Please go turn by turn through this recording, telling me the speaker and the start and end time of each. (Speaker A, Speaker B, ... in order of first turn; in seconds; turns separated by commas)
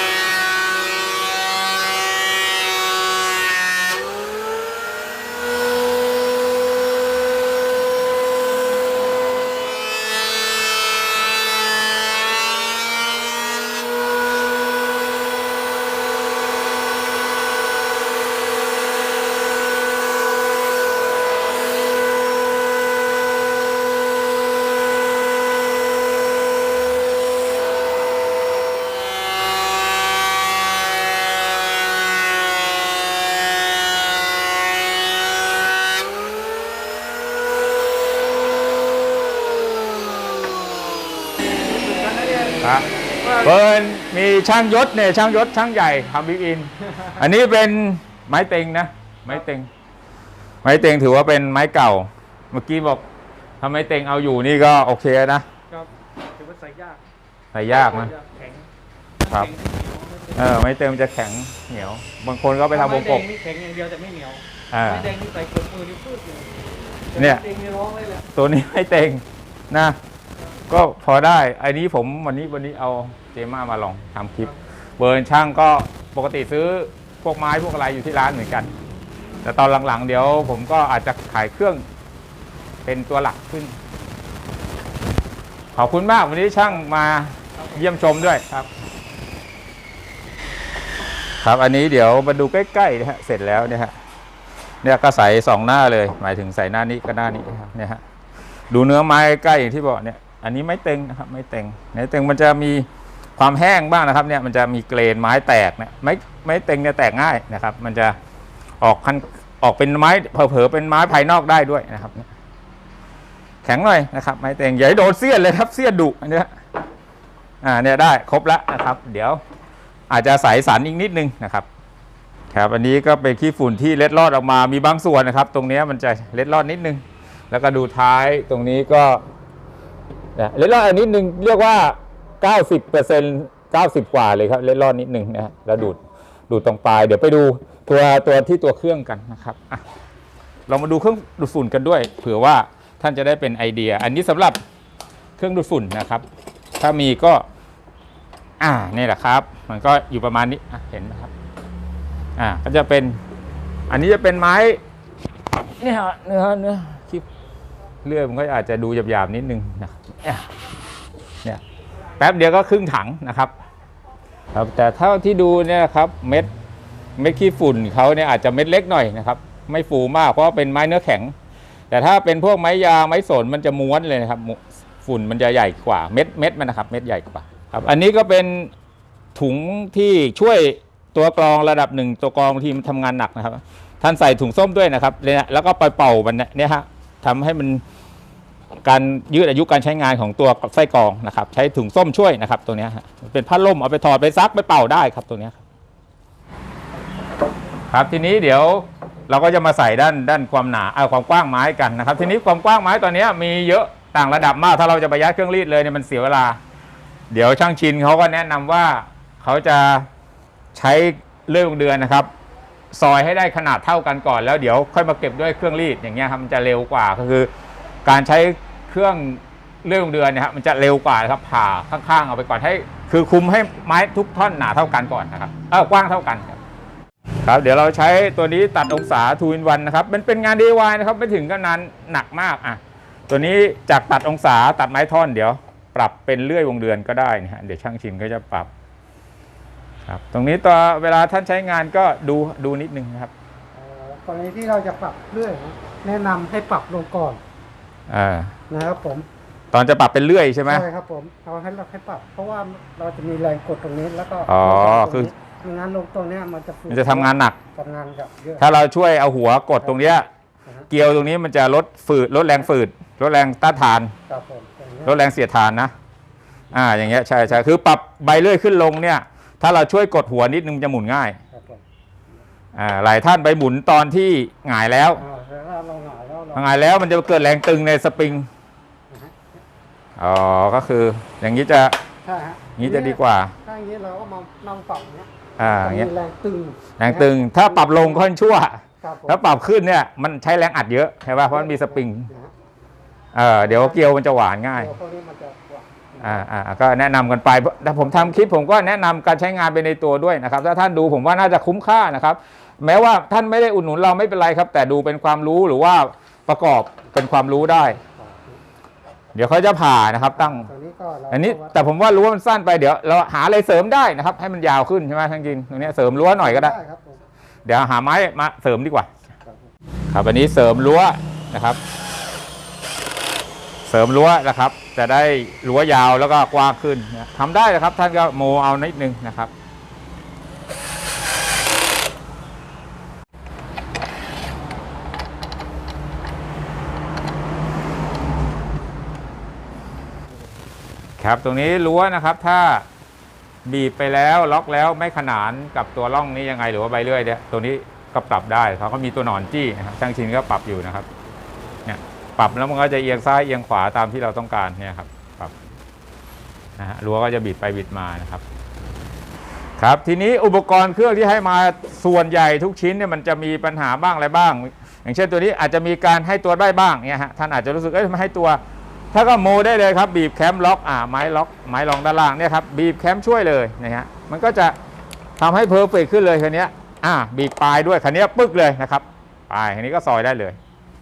Speaker A: 41.7-42.6, Speaker B: 42.6-49.7, Speaker B: 50.6-53.0, Speaker B: 53.6-55.5, Speaker A: 55.7-57.0, Speaker B: 57.5-58.1, Speaker A: 57.8-58.7, Speaker A: 59.2-60.4, Speaker B: 59.3-59.5, Speaker B: 60.3-63.3, Speaker A: 62.8-66.6, Speaker B: 64.7-65.1, Speaker A: 67.2-68.2, Speaker B: 67.2-67.5, Speaker B: 68.3-70.0, Speaker B: 70.7-78.7, Speaker B: 79.4-81.8, Speaker B: 82.8-83.8, Speaker B: 85.8-88.7, Speaker B: 91.4-93.9, Speaker B: 94.8-98.0, Speaker B: 98.7-108.2, Speaker B: 108.8-112.3, Speaker B: 113.6-116.5, Speaker B: 117.6-119.4, Speaker B: 120.1-121.7, Speaker B: 122.5-129.2, Speaker B: 130.4-139.8, Speaker B: 140.7-144.6, Speaker B: 145.4-146.2, Speaker B: 146.8-147.4, Speaker B: 148.6-151.3, Speaker B: 152.4-153.2, Speaker B: 153.9-154.8, Speaker B: 155.8-157.3, Speaker B: 158.0-160.5, Speaker B: 162.2-163.5, Speaker B: 164.5-166.5, Speaker B: 167.2-171.3, Speaker B: 171.9-178.7, Speaker B: 179.3-187.8, Speaker B: 188.8-195.6, Speaker B: 197.9-206.6, Speaker B: 207.3-210.1, Speaker B: 210.7-212.3, Speaker B: 212.9-217.5, Speaker B: 218.1-226.6, Speaker B: 227.4-238.7, Speaker B: 240.1-243.3, Speaker C: 243.8-247.4, Speaker B: 248.1-248.6, Speaker C: 248.7-249.3, Speaker B: 249.7-250.9, Speaker C: 250.7-258.6, Speaker B: 254.5-255.3, Speaker B: 256.9-257.6, Speaker B: 258.6-260.3, Speaker B: 260.9-264.1, Speaker C: 264.3-265.1, Speaker B: 265.0-265.9, Speaker B: 266.7-271.4, Speaker C: 271.5-271.8, Speaker B: 272.8-275.3, Speaker C: 275.2-276.7, Speaker B: 276.5-278.5, Speaker C: 279.1-279.4, Speaker B: 280.2-282.0, Speaker C: 282.2-288.1, Speaker B: 282.8-283.5, Speaker B: 285.6-286.1, Speaker B: 287.0-292.3, Speaker C: 289.0-289.4, Speaker C: 291.7-292.5, Speaker B: 293.3-294.9, Speaker C: 294.8-296.1, Speaker B: 296.2-308.0, Speaker C: 308.0-308.6, Speaker B: 309.3-310.7, Speaker C: 310.6-311.8, Speaker B: 311.3-316.8, Speaker C: 316.4-317.2, Speaker B: 317.7-319.1, Speaker B: 320.1-321.8, Speaker B: 323.9-329.5, Speaker B: 341.2-342.9, Speaker B: 343.6-351.1, Speaker B: 351.9-355.5, Speaker B: 356.8-358.4, Speaker B: 359.8-368.6, Speaker B: 369.1-374.8, Speaker B: 375.4-380.6